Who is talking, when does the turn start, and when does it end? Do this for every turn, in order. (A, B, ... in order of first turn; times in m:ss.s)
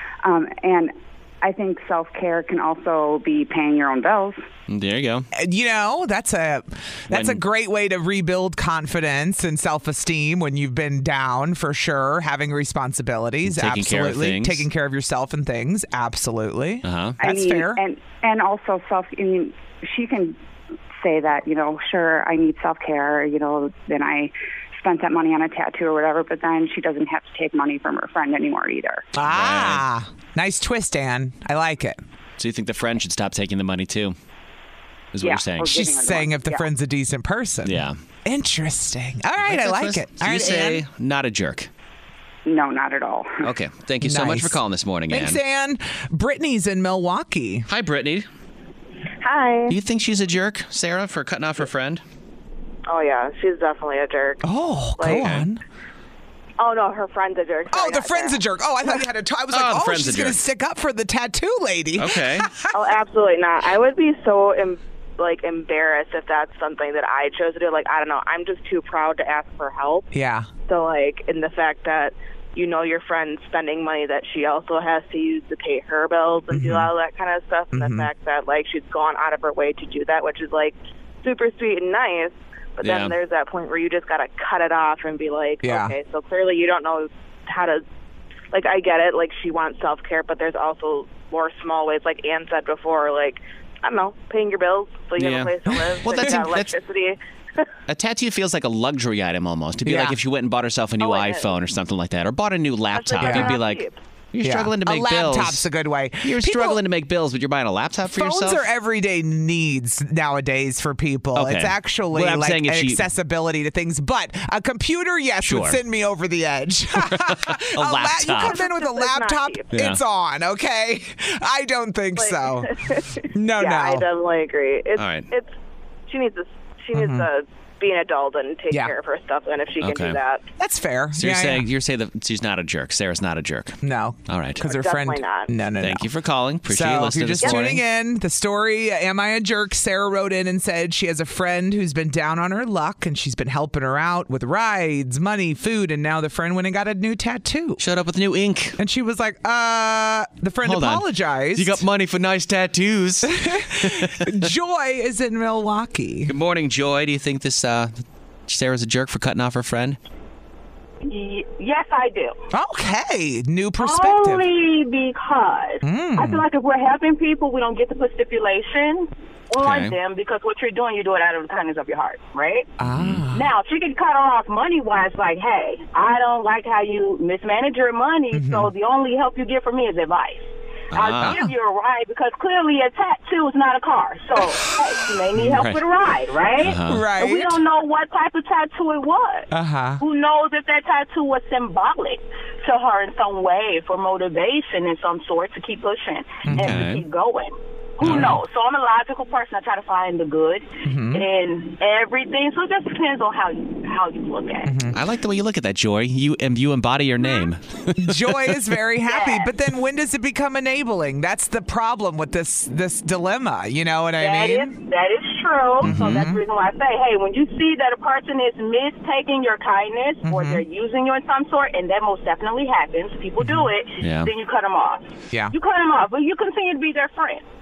0:00.2-0:04.4 A
0:04.7-0:05.3 B
0:05.3-0:17.8 C
0:07.1-0:07.4 B
0:13.5-0:14.6 B
0:16.8-0:17.2 B
0:17.2-0:20.4 A
0:21.0-0:29.0 A
0:29.2-0:32.0 C
0:29.3-0:29.8 B
0:32.4-0:34.2 B
0:35.1-0:35.9 B
0:35.2-0:36.7 A
0:35.7-0:40.8 C
0:37.6-0:38.0 B
0:39.4-0:41.7 B
0:42.5-0:43.5 A
0:43.4-0:45.4 B
0:44.0-0:44.6 C
0:45.1-0:47.7 C
0:47.7-0:48.3 B
0:49.2-0:49.8 D
0:49.7-0:52.0 B
0:52.9-0:54.4 D
0:54.4-0:55.6 C
0:55.2-0:55.4 B
0:56.6-0:58.4 D
0:57.7-1:02.7 C
0:59.5-1:00.4 B
1:02.0-1:02.5 B
1:02.7-1:10.1 D
1:10.1-1:10.5 C
1:10.7-1:27.8 D
1:16.5-1:16.9 C
1:17.7-1:18.1 C
1:22.8-1:23.1 B
1:25.6-1:26.0 C
1:28.5-1:37.7 D
1:35.2-1:36.8 B
1:37.9-1:45.7 B
1:39.8-1:40.2 C
1:41.0-1:41.5 D
1:42.9-1:44.0 D
1:43.2-1:43.6 C
1:44.4-1:46.8 C
1:46.2-1:48.7 B
1:48.1-2:04.1 C
1:51.4-1:53.0 B
1:55.4-1:55.8 B
1:57.0-1:58.6 B
1:58.4-1:59.7 D
1:59.7-2:00.0 B
2:02.2-2:05.6 D
2:05.0-2:05.3 B
2:06.1-2:10.4 D
2:06.9-2:07.3 C
2:09.8-2:10.2 B
2:10.6-2:11.7 C
2:11.2-2:14.6 B
2:13.8-2:16.1 C
2:14.6-2:15.5 D
2:15.8-2:17.8 B
2:16.7-2:27.8 C
2:27.8-2:28.8 B
2:28.8-2:31.8 C
2:30.6-2:34.5 B
2:33.3-2:36.3 C
2:36.3-2:40.0 B
2:41.0-2:42.4 E
2:42.5-2:44.4 C
2:43.8-2:52.7 E
2:45.8-2:46.4 C
2:49.6-2:50.0 B
2:52.8-2:53.5 C
2:52.9-2:53.2 B
2:53.3-3:24.8 E
2:58.3-2:58.7 C
3:00.9-3:01.4 B
3:01.2-3:01.5 C
3:05.4-3:05.8 B
3:06.6-3:07.0 B
3:06.8-3:07.6 C
3:09.5-3:10.0 C
3:16.4-3:16.8 C
3:16.6-3:17.0 B
3:18.0-3:18.4 B
3:18.0-3:18.4 C
3:20.8-3:21.2 C
3:24.6-3:25.0 C
3:24.9-3:28.6 B
3:28.0-3:34.8 C
3:29.0-3:29.5 E
3:34.2-3:47.4 E
3:35.8-3:36.4 C
3:35.8-3:36.3 B
3:40.2-3:40.6 C
3:43.4-3:43.7 C
3:44.0-3:44.3 B